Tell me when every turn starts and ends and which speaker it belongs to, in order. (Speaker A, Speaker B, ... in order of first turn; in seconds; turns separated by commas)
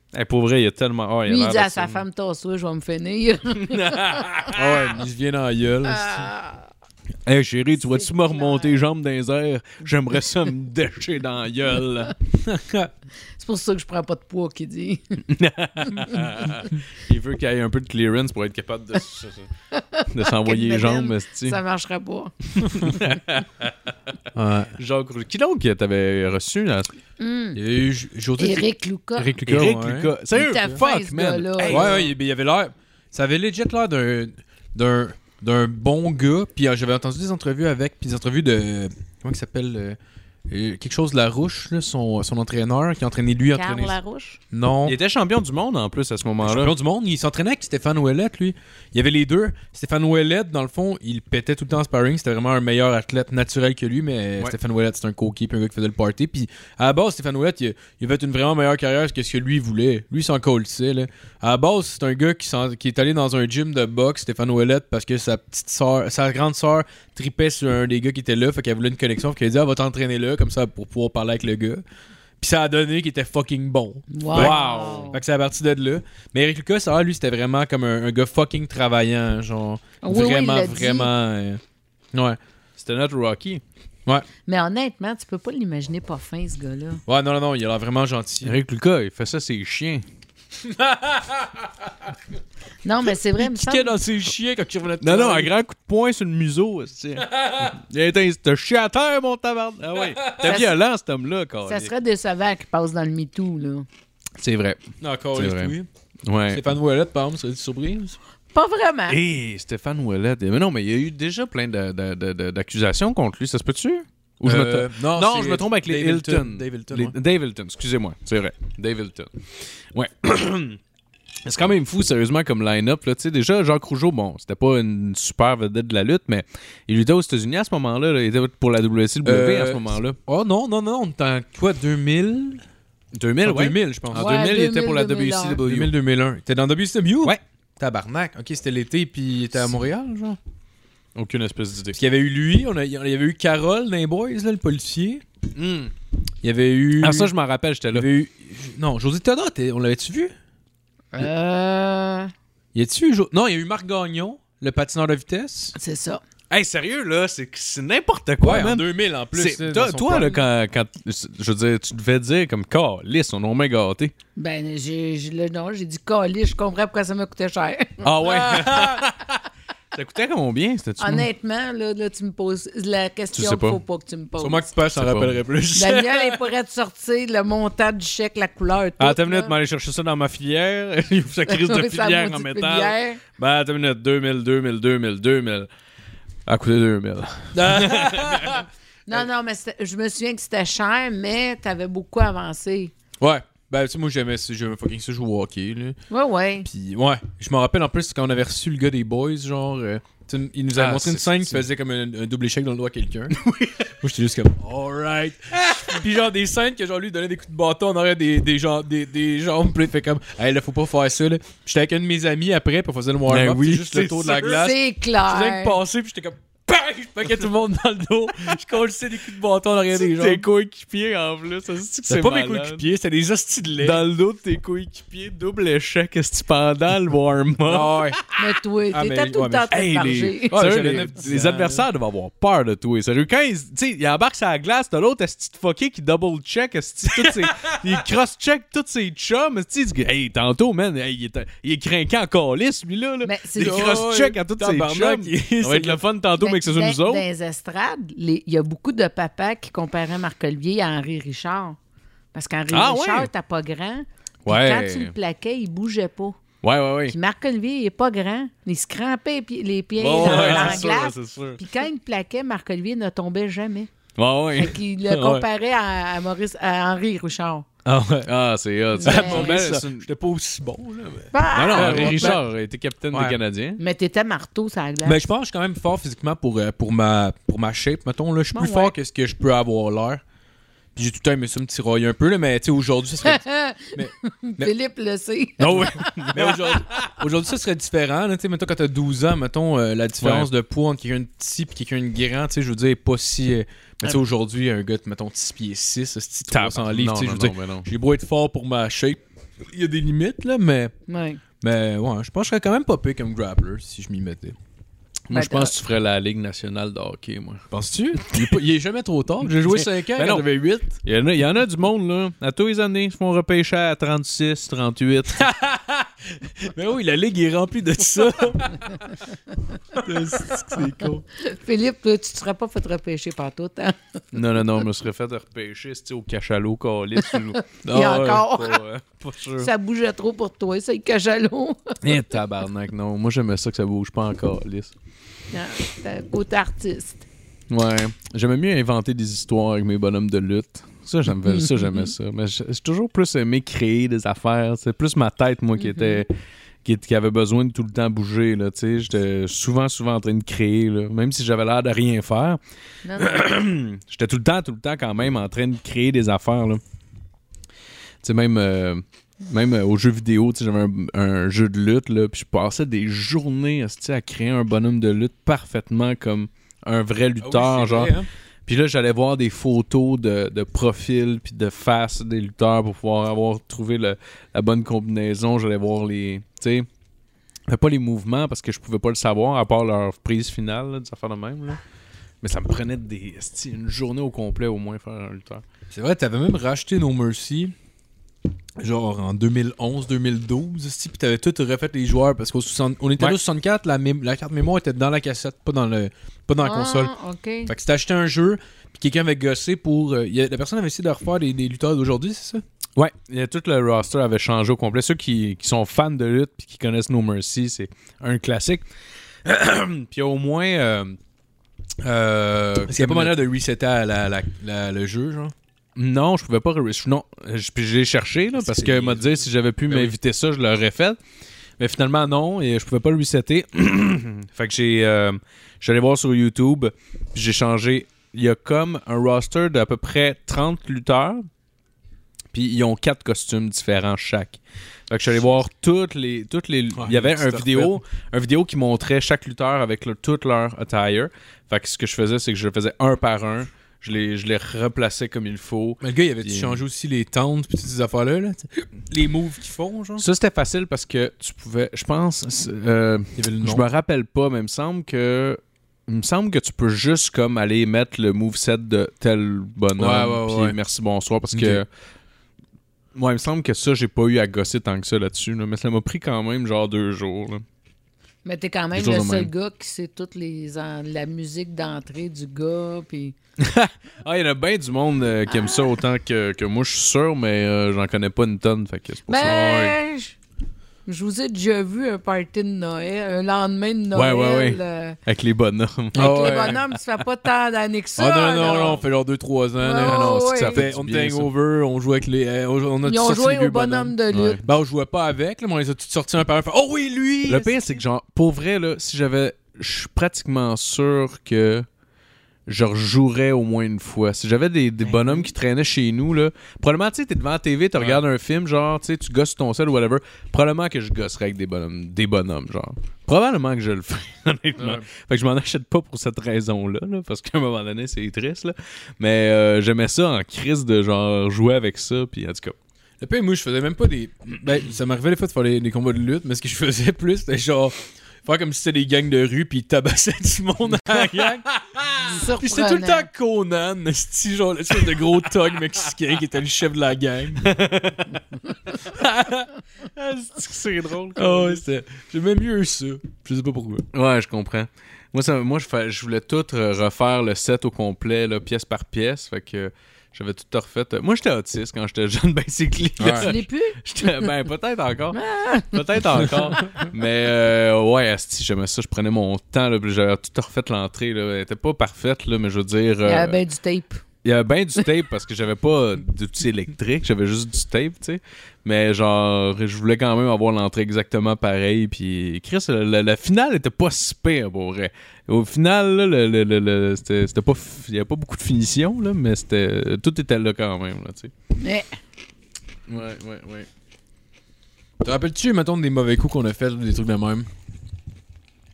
Speaker A: 0.1-2.0, Speaker B: 1.3-4.7, Speaker A: 3.6-4.7, Speaker C: 4.5-6.3, Speaker B: 5.9-6.6, Speaker A: 7.2-12.1, Speaker B: 7.8-8.8, Speaker C: 12.4-12.9, Speaker B: 13.4-15.2, Speaker A: 15.3-19.5, Speaker B: 15.9-16.2, Speaker B: 19.7-23.0, Speaker A: 20.1-21.6, Speaker A: 22.6-23.7, Speaker C: 24.3-24.7, Speaker A: 24.8-26.9, Speaker B: 27.2-27.6, Speaker C: 27.5-28.6, Speaker B: 28.4-29.3, Speaker A: 29.2-32.0, Speaker C: 29.4-30.1, Speaker B: 30.3-32.1, Speaker C: 31.7-40.0, Speaker C: 40.5-44.0, Speaker B: 43.5-44.4, Speaker C: 44.5-45.0, Speaker A: 44.8-46.7, Speaker C: 46.4-71.8, Speaker C: 72.4-81.6, Speaker B: 74.1-75.2, Speaker A: 74.3-75.1, Speaker B: 80.0-81.1, Speaker C: 82.1-82.4, Speaker A: 82.8-83.6, Speaker B: 84.5-87.0, Speaker C: 87.1-88.6, Speaker A: 88.4-90.0, Speaker C: 90.6-92.1, Speaker B: 92.8-93.9, Speaker C: 93.0-95.5, Speaker A: 95.0-101.9, Speaker C: 97.2-97.7, Speaker C: 100.0-100.6, Speaker B: 100.4-100.7, Speaker B: 101.7-103.9, Speaker A: 104.4-104.8, Speaker C: 105.0-105.9, Speaker A: 105.3-105.7, Speaker A: 106.2-106.6, Speaker C: 106.5-108.2, Speaker B: 108.5-109.2, Speaker A: 109.1-119.3, Speaker C: 114.4-117.1, Speaker A: 119.9-120.8, Speaker A: 121.4-130.2, Speaker C: 129.2-132.6, Speaker A: 133.1-135.9, Speaker C: 133.4-134.4, Speaker B: 134.1-135.6, Speaker C: 135.6-140.4, Speaker A: 141.2-142.0, Speaker C: 141.9-145.2, Speaker A: 145.5-145.9, Speaker C: 146.4-147.3, Speaker A: 147.0-148.1, Speaker C: 147.9-150.3, Speaker B: 151.1-152.3, Speaker C: 152.7-155.7, Speaker B: 155.7-156.2, Speaker A: 156.5-164.1, Speaker C: 158.4-160.4, Speaker B: 164.3-168.0, Speaker A: 168.0-169.4, Speaker C: 168.2-169.1, Speaker A: 169.9-171.3, Speaker B: 171.0-174.6, Speaker A: 173.3-173.8, Speaker C: 174.4-176.4, Speaker A: 174.9-175.3, Speaker B: 175.7-179.5, Speaker A: 179.0-185.7, Speaker B: 181.5-183.2, Speaker A: 186.4-188.6, Speaker C: 187.5-188.7, Speaker B: 189.1-192.9, Speaker C: 193.2-196.0, Speaker B: 196.1-196.7, Speaker C: 196.6-203.4, Speaker A: 200.7-201.6, Speaker A: 203.3-203.9, Speaker C: 204.0-220.4, Speaker A: 213.3-214.7, Speaker B: 214.4-215.8, Speaker A: 219.9-222.8, Speaker C: 222.1-224.0, Speaker A: 223.8-228.1, Speaker C: 227.7-228.2, Speaker B: 228.3-230.6, Speaker C: 228.9-229.8, Speaker A: 229.7-247.2, Speaker C: 230.5-231.8, Speaker C: 237.2-237.9, Speaker B: 243.2-244.0, Speaker C: 243.6-246.0, Speaker B: 246.4-251.8, Speaker B: 252.3-256.4, Speaker A: 252.7-253.3, Speaker A: 254.4-255.1, Speaker A: 256.6-257.1, Speaker B: 257.1-263.9, Speaker A: 260.0-261.6, Speaker C: 260.2-260.9, Speaker A: 264.1-264.8, Speaker B: 264.6-267.6, Speaker C: 265.1-265.4, Speaker C: 267.8-268.3, Speaker A: 268.2-270.1, Speaker B: 268.9-269.5, Speaker C: 269.0-272.4, Speaker B: 271.3-272.4, Speaker A: 271.5-273.8, Speaker C: 273.1-273.4, Speaker B: 273.8-275.2, Speaker C: 275.0-280.2, Speaker B: 278.5-278.9, Speaker C: 280.9-284.7, Speaker B: 283.2-286.5, Speaker C: 285.6-300.9, Speaker A: 285.7-287.1, Speaker A: 290.2-290.5, Speaker A: 296.5-297.9, Speaker B: 301.1-301.4, Speaker C: 301.6-304.6, Speaker A: 305.3-307.7, Speaker B: 305.3-305.7, Speaker C: 307.7-311.0, Speaker A: 309.6-310.4, Speaker A: 311.0-315.5, Speaker C: 315.3-319.1, Speaker A: 319.9-321.2, Speaker C: 320.0-321.2, Speaker B: 321.4-324.0, Speaker A: 324.3-329.7, Speaker B: 327.2-328.8, Speaker B: 329.6-332.0, Speaker A: 332.0-334.9, Speaker B: 335.5-337.2, Speaker A: 337.7-346.3, Speaker B: 341.4-342.0, Speaker B: 345.8-346.2, Speaker A: 346.8-352.6, Speaker B: 353.0-353.4, Speaker A: 353.2-356.8, Speaker A: 358.2-376.9, Speaker C: 367.4-368.3, Speaker A: 377.7-381.8, Speaker A: 382.4-385.6, Speaker C: 385.9-387.7, Speaker C: 388.8-397.1, Speaker B: 396.6-397.7, Speaker C: 397.6-402.6, Speaker A: 402.9-408.8, Speaker A: 409.4-411.2, Speaker A: 412.0-413.3, Speaker C: 412.8-415.5, Speaker A: 415.9-421.2, Speaker C: 418.6-419.3, Speaker C: 419.9-420.1, Speaker A: 421.8-431.4, Speaker A: 432.5-446.8, Speaker C: 436.9-438.0, Speaker C: 446.0-450.2, Speaker A: 450.2-461.9, Speaker C: 453.4-453.9, Speaker C: 460.0-460.8, Speaker C: 461.5-461.8, Speaker A: 463.1-467.6, Speaker B: 468.4-473.3, Speaker A: 468.9-469.5, Speaker A: 473.6-479.9, Speaker B: 475.5-475.9, Speaker B: 479.3-480.4, Speaker B: 481.1-485.2, Speaker A: 484.1-486.8, Speaker C: 486.1-486.8, Speaker B: 486.1-489.0, Speaker C: 488.2-497.8, Speaker B: 489.8-490.8, Speaker A: 490.0-491.5, Speaker B: 493.0-494.6, Speaker A: 494.3-494.7, Speaker A: 497.4-501.9, Speaker A: 502.7-522.7, Speaker C: 507.9-508.2, Speaker C: 514.8-515.0, Speaker C: 523.2-537.7, Speaker A: 530.9-531.6, Speaker B: 532.2-533.3, Speaker A: 537.6-538.4, Speaker C: 539.0-539.7, Speaker A: 540.0-541.8, Speaker C: 541.4-544.0, Speaker A: 544.1-563.6, Speaker C: 553.2-553.5, Speaker B: 553.3-554.0, Speaker B: 555.3-556.0, Speaker B: 563.2-564.2, Speaker A: 564.4-581.5, Speaker B: 581.8-582.1, Speaker A: 583.1-583.9, Speaker C: 585.2-587.6